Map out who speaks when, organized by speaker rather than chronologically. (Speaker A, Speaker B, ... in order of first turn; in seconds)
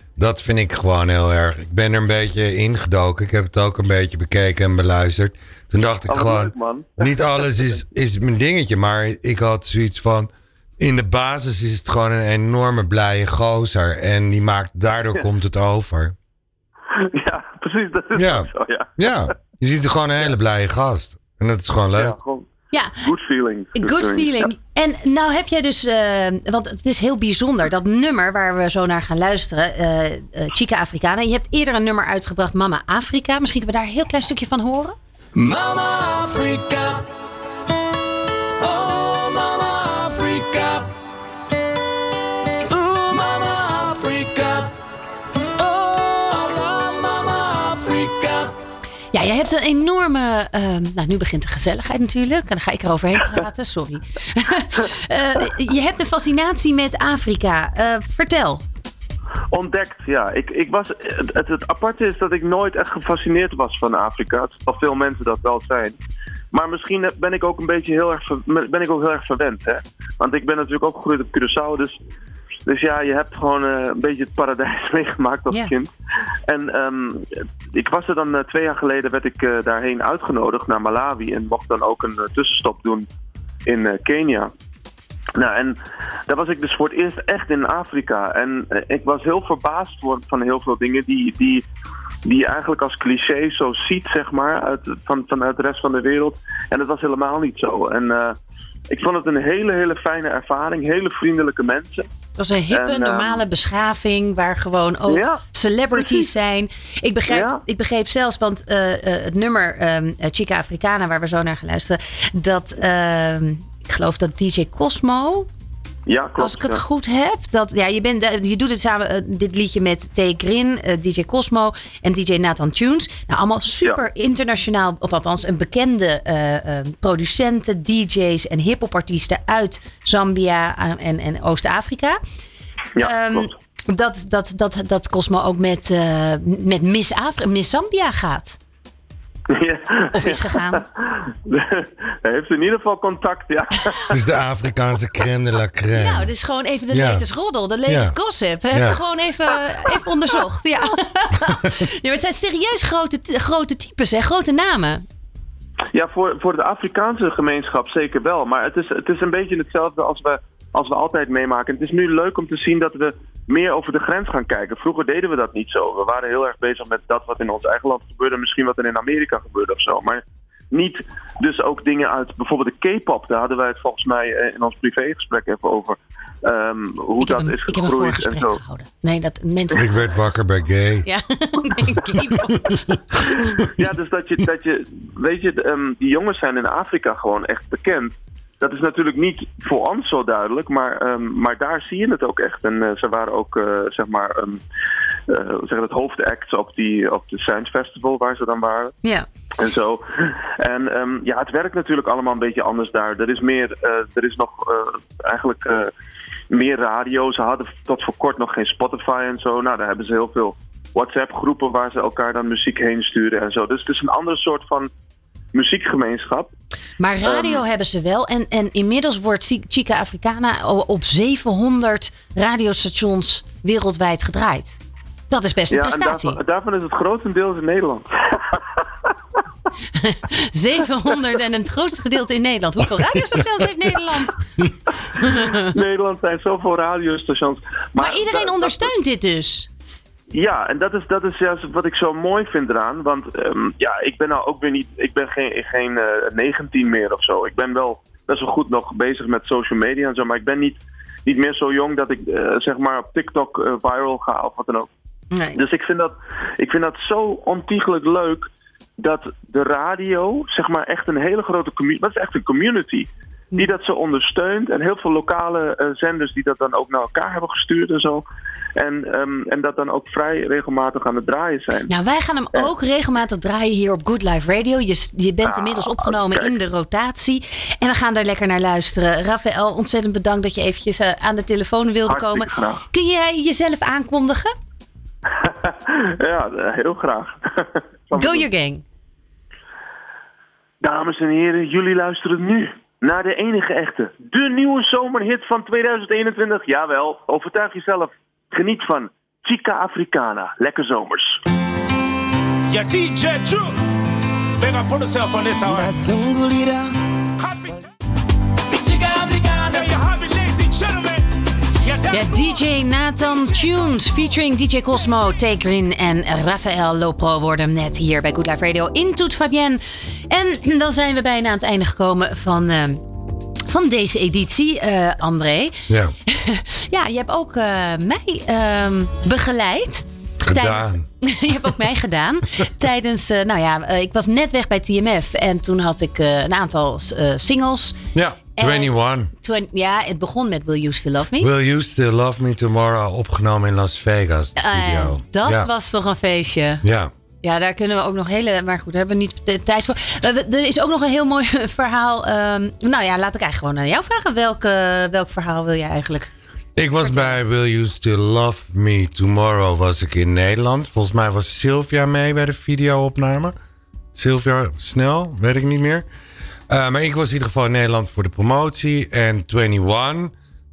Speaker A: 0.2-16.1, 18.2-22.1, 144.1-146.3, 146.9-147.2, 147.9-148.2, 148.7-149.0, 179.8-181.1, 325.9-326.1, 330.4-331.0, 338.1-339.3, 341.4-345.7, 346.8-347.1, 356.8-363.6, 364.1-366.1, 366.7-370.3
Speaker B: 6.1-7.7, 16.9-19.3, 21.9-24.5, 59.5-66.0, 66.5-72.0, 72.7-75.9, 76.5-83.1, 83.7-84.5, 85.4-91.6, 92.2-98.3, 98.9-102.1, 102.7-103.4, 105.1-105.4, 106.0-106.3, 107.3-107.6, 116.1-116.8, 133.0-133.5, 139.5-144.2, 155.9-178.6, 182.1-194.6, 195.3-198.9, 199.6-205.9, 206.5-214.9, 215.5-216.5, 217.2-217.6, 225.7-229.1, 234.9-238.9, 240.3-254.9, 255.6-268.2, 268.8-271.9, 275.4-276.5, 282.1-282.9, 285.3-288.5, 290.8-301.4
Speaker C: 22.7-23.1, 23.8-35.0, 49.1-58.6, 102.4-115.5, 116.4-132.2, 133.0-138.6, 140.1-140.8, 145.9-155.1, 177.2-180.3, 181.1-183.0, 217.0-224.8, 225.3-226.4, 229.9-234.5, 235.2-235.6, 238.0-239.7, 255.3-255.6, 271.9-284.6, 288.1-288.8, 312.1-323.0, 323.7-338.0, 338.6-341.5, 344.6-346.8, 347.4-356.3, 357.0-357.4
Speaker D: 35.4-37.0, 38.6-40.9, 42.7-44.7, 45.6-48.5, 305.2-305.7, 309.2-309.8
Speaker E: 302.7-303.7, 304.6-305.9, 307.5-307.8, 308.7-311.2, 311.9-312.6